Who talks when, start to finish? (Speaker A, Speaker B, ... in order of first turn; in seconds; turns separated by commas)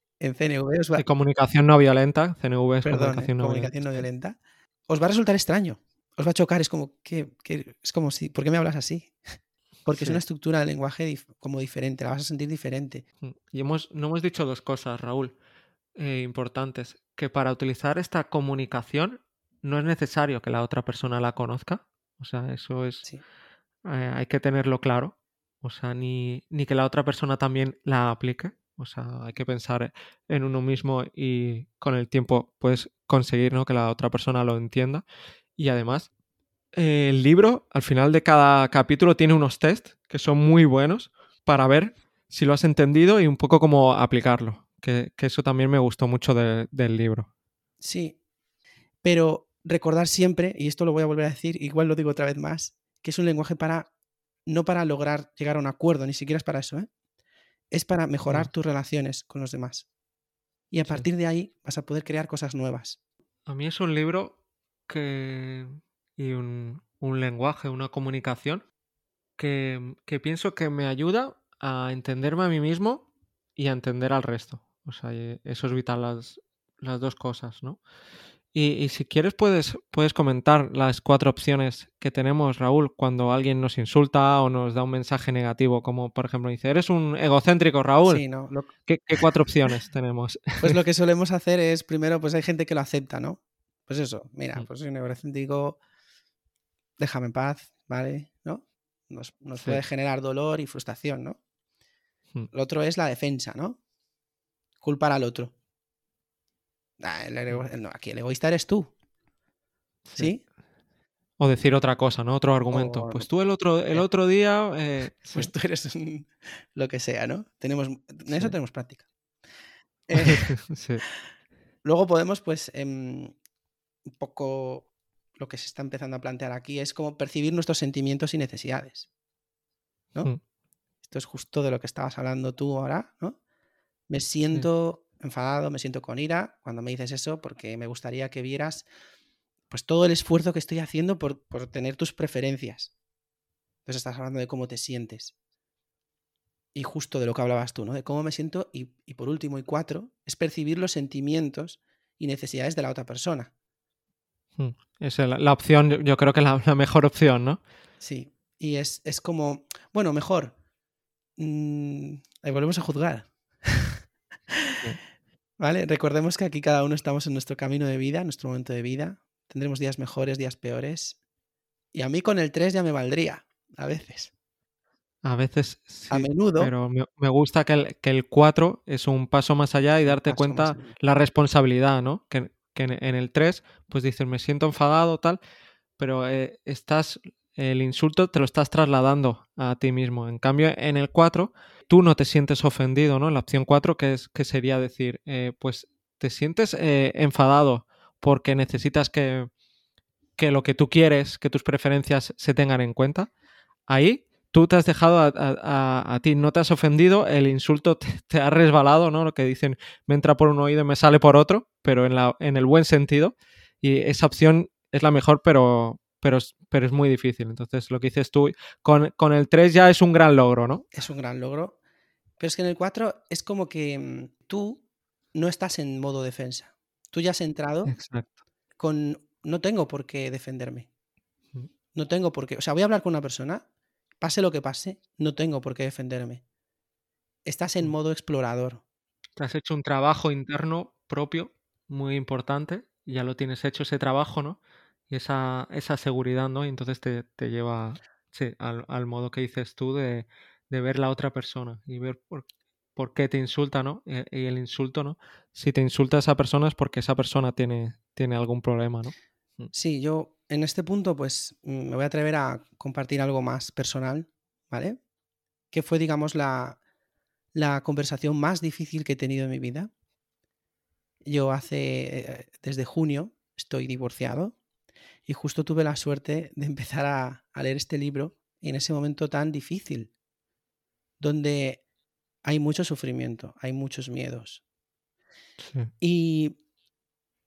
Speaker A: 0.2-1.0, Speaker B: 1.0-4.0, Speaker A: 2.8-9.1, Speaker A: 9.8-13.0, Speaker B: 9.9-10.2, Speaker B: 13.2-15.3, Speaker B: 15.9-23.0, Speaker B: 23.8-35.0, Speaker B: 35.6-36.1, Speaker B: 36.7-47.3, Speaker A: 47.8-48.2, Speaker A: 49.0-53.9, Speaker A: 54.5-56.9, Speaker A: 57.7-59.9, Speaker A: 60.7-63.0, Speaker B: 63.5-64.4, Speaker B: 64.9-68.6, Speaker B: 69.4-77.8, Speaker B: 78.5-88.2, Speaker A: 88.0-89.3, Speaker B: 88.9-90.8, Speaker A: 90.6-95.8, Speaker A: 97.0-101.4, Speaker A: 102.5-103.8, Speaker A: 104.8-105.5, Speaker A: 107.0-108.9, Speaker B: 110.0-110.3, Speaker A: 110.2-110.4, Speaker B: 111.4-115.5, Speaker A: 112.7-113.3, Speaker A: 115.3-119.0, Speaker A: 120.1-120.5, Speaker B: 120.2-121.0, Speaker A: 121.8-123.3, Speaker A: 124.2-129.1, Speaker A: 131.0-133.4, Speaker A: 134.1-138.8, Speaker A: 139.7-142.9, Speaker A: 143.8-145.3, Speaker A: 146.7-153.5, Speaker B: 154.6-157.6, Speaker A: 158.0-160.5, Speaker A: 161.4-164.0, Speaker A: 165.6-171.2, Speaker A: 171.9-174.3, Speaker B: 175.2-185.4, Speaker A: 176.1-176.7, Speaker A: 180.0-180.9, Speaker B: 186.0-199.5, Speaker B: 200.4-203.3, Speaker B: 203.9-220.8, Speaker A: 220.9-221.8, Speaker A: 222.4-224.8, Speaker A: 225.3-227.9, Speaker B: 227.8-228.3, Speaker A: 228.8-230.9, Speaker A: 231.9-233.6, Speaker A: 234.2-236.4, Speaker A: 237.4-238.8, Speaker B: 239.4-259.7, Speaker A: 259.7-265.0, Speaker A: 265.7-266.8, Speaker A: 267.5-269.9, Speaker A: 271.2-274.6, Speaker A: 275.3-280.1, Speaker A: 281.2-281.8, Speaker A: 282.4-284.6, Speaker B: 285.6-285.9, Speaker A: 286.0-286.6